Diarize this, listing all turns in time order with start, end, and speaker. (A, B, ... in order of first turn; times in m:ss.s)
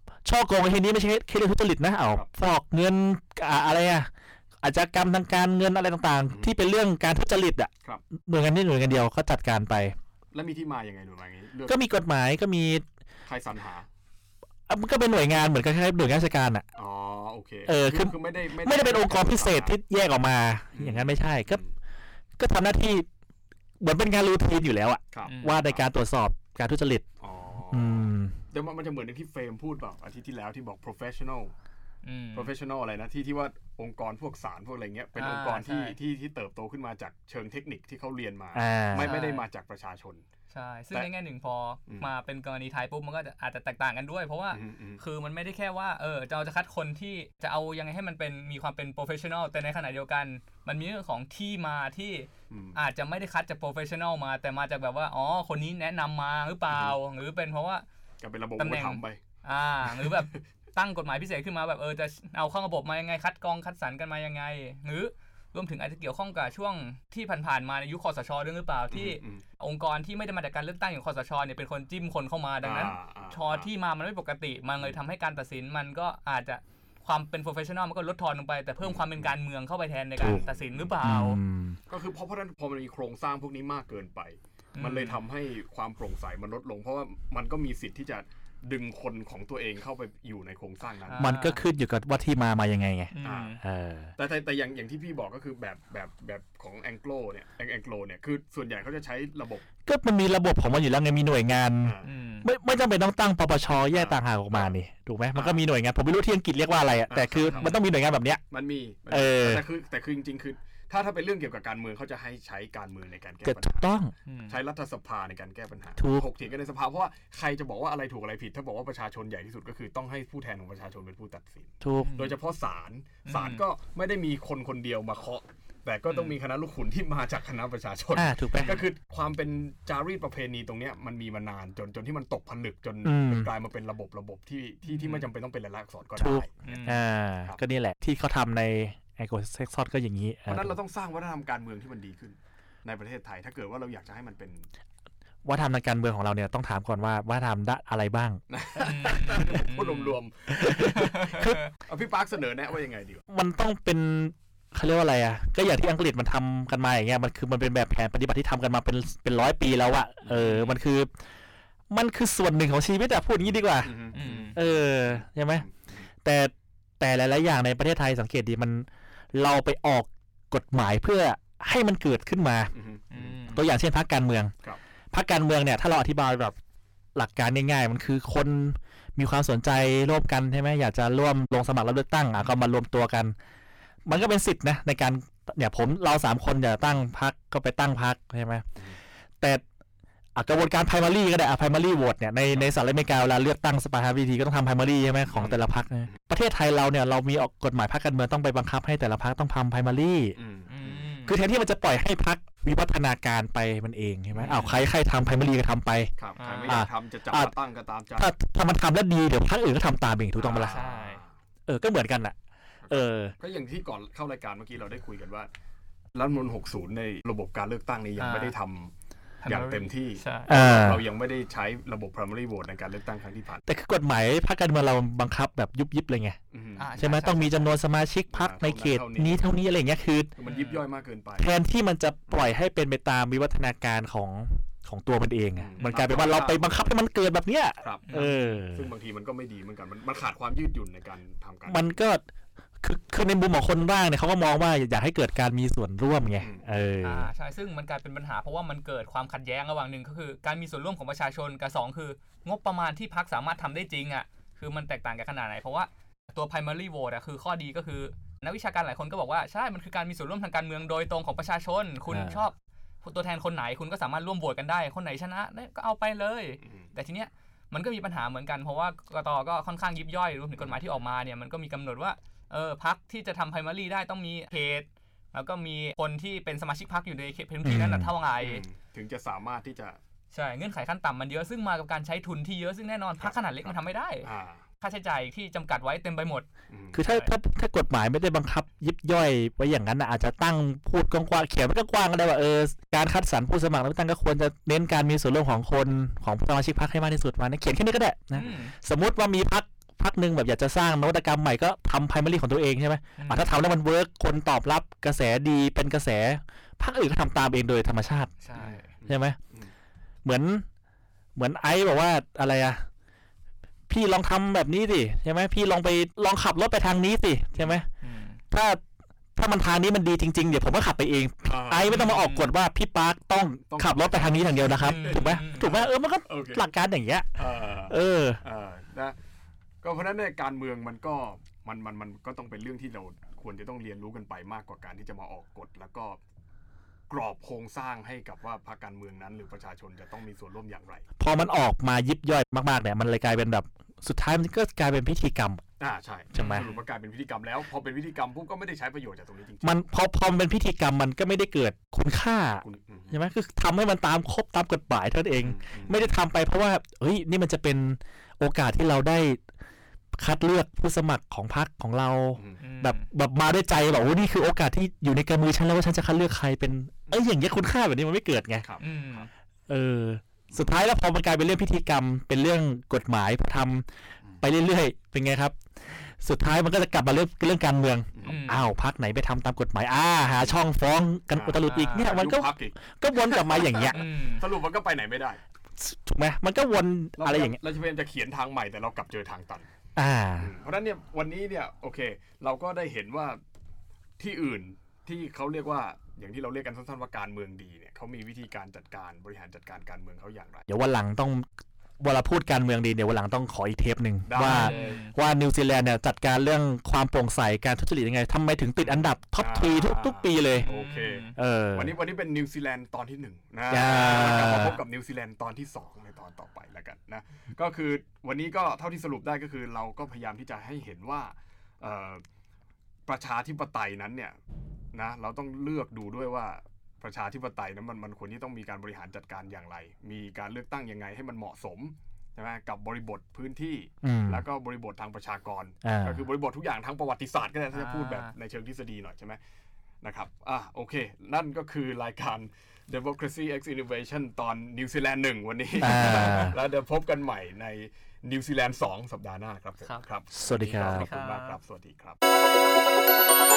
0:00.2-0:04.1 A
0:04.6-0:10.0 A
0:06.3-0:06.5 B
0:10.3-0:11.8 B
0:11.7-0:12.8 A
0:13.2-0:13.9 B
0:14.7-0:16.6 A
0:16.8-0:19.7 B
0:17.7-0:21.6 A
0:20.7-0:21.7 B
0:22.4-0:23.0 A
0:23.8-0:27.0 A
0:25.1-0:25.8 B
0:25.3-0:25.6 C
0:27.2-0:31.5 B
0:27.7-0:28.4 A
0:32.0-0:32.5 C
0:32.3-0:40.2 B
0:35.2-0:36.0 C
0:38.5-0:39.2 A
0:39.0-0:39.4 C
0:40.5-0:57.8 C
0:44.5-0:45.0 B
0:52.5-0:52.8 B
0:56.7-0:57.0 B
0:58.2-0:59.2 B
0:58.6-1:21.4 C
0:59.8-1:00.4 B
1:08.9-1:09.4 B
1:12.6-1:13.7 B
1:18.8-1:19.4 B
1:20.2-1:20.4 A
1:20.2-1:20.9 B
1:21.0-1:21.8 A
1:21.9-1:31.3 B
1:24.7-1:25.2 C
1:31.0-1:31.6 C
1:31.2-1:34.1 A
1:33.1-1:33.6 C
1:33.2-1:33.6 B
1:34.2-1:39.6 B
1:39.9-1:48.4 A
1:41.8-1:42.1 B
1:42.0-1:42.5 C
1:43.9-1:44.7 B
1:45.4-1:45.6 B
1:47.1-1:47.8 B
1:47.4-1:47.7 C
1:48.5-1:53.9 B
1:49.1-1:49.6 A
1:53.4-1:54.1 A
1:54.2-1:54.6 C
1:54.5-2:17.6 B
1:56.0-1:56.3 A
2:01.8-2:02.1 A
2:02.0-2:02.4 C
2:03.2-2:03.6 C
2:08.1-2:08.8 A
2:13.0-2:13.5 A
2:14.9-2:15.3 C
2:16.2-2:20.7 A
2:16.6-2:17.0 C
2:20.5-2:24.7 B
2:25.4-2:28.4 A
2:28.5-2:31.3 B
2:28.8-2:31.7 C
2:30.6-2:31.6 A
2:31.8-2:33.2 B
2:33.3-2:41.1 A
2:40.2-2:40.8 B
2:41.9-2:44.0 A
2:43.8-2:46.1 B
2:44.1-2:44.6 C
2:44.5-2:45.6 A
2:46.2-2:52.7 A
2:52.7-2:53.6 B
2:53.1-2:53.6 C
2:53.5-2:54.5 A
2:55.1-2:56.6 A
2:57.1-3:03.3 A
3:04.0-3:08.6 A
3:10.4-3:20.4 A
3:15.3-3:16.2 B
3:20.4-3:21.1 B
3:20.7-3:21.4 C
3:21.2-3:26.1 A
3:24.3-3:24.7 B
3:24.4-3:24.8 C
3:26.2-3:28.3 B
3:26.4-3:26.8 C
3:26.7-3:27.5 A
3:28.2-3:30.8 A
3:30.4-3:31.3 B
3:30.6-3:31.2 C
3:31.7-3:32.4 A
3:32.8-3:35.5 B
3:32.9-3:33.4 A
3:36.1-3:38.9 B
3:38.2-3:38.5 C
3:39.4-3:40.5 C
3:39.4-3:43.6 B
3:40.5-3:41.0 A
3:43.7-3:46.4 A
3:46.5-3:47.1 B
3:46.8-3:47.7 C
3:47.0-3:50.3 A
3:48.3-3:49.4 B
3:50.4-3:51.5 B
3:50.4-3:50.8 C
3:51.4-3:58.9 A
3:55.6-3:57.0 B
3:57.8-4:01.9 B
3:58.1-3:58.5 C
4:01.6-4:02.2 A
4:02.8-4:07.3 A
4:06.4-4:06.7 B
4:07.0-4:38.6 C
4:22.1-4:22.4 A
4:26.6-4:26.9 B
4:37.6-4:38.1 A
4:38.4-4:40.0 B
4:40.3-4:44.3 C
4:43.2-4:44.6 B
4:44.8-4:46.5 C
4:46.7-4:47.0 B
4:46.9-5:08.3 A
4:47.0-4:47.3 C
4:58.4-4:58.7 C
5:03.2-5:03.5 C
5:08.4-5:08.8 C
5:08.5-5:09.7 B
5:09.1-5:09.4 A
5:10.2-5:10.6 A
5:11.4-5:12.8 A
5:13.9-5:17.9 A
5:18.0-5:18.4 C
5:18.5-5:18.8 A
5:19.4-5:28.4 A
5:21.4-5:22.0 B
5:21.8-5:22.5 C
5:23.7-5:26.7 B
5:24.8-5:25.7 C
5:27.4-5:29.2 B
5:29.8-5:36.2 B
5:37.1-5:41.0 B
5:41.2-5:45.6 A
5:45.8-5:49.8 B
5:46.4-5:46.7 A
5:46.4-5:46.8 C
5:49.6-5:59.4 A
5:52.6-5:53.2 B
5:55.4-5:56.1 B
6:00.1-6:08.6 A
6:02.4-6:02.6 B
6:02.6-6:03.0 C
6:08.6-6:09.2 B
6:08.8-6:09.3 C
6:09.7-6:13.9 A
6:14.4-6:15.6 A
6:16.2-6:24.0 A
6:18.1-6:18.4 B
6:18.2-6:18.7 C
6:21.3-6:25.4 B
6:21.6-6:22.1 C
6:23.9-6:24.5 C
6:25.8-6:27.6 A
6:27.2-6:29.7 B
6:30.0-6:30.5 A
6:30.4-6:33.4 B
6:34.2-6:40.6 B
6:40.7-6:41.5 A
6:42.0-6:50.7 A
6:44.2-6:45.0 B
6:44.4-6:45.1 C
6:48.8-7:02.2 B
6:50.6-6:51.4 C
6:51.4-6:51.9 A
6:53.7-6:54.8 A
6:53.9-6:54.4 C
7:03.1-7:04.4 B
7:04.9-7:19.4 B
7:14.0-7:14.4 A
7:15.8-7:16.2 A
7:17.7-7:18.3 C
7:20.0-7:32.2 B
7:25.8-7:26.6 A
7:30.3-7:31.1 A
7:30.7-7:31.6 C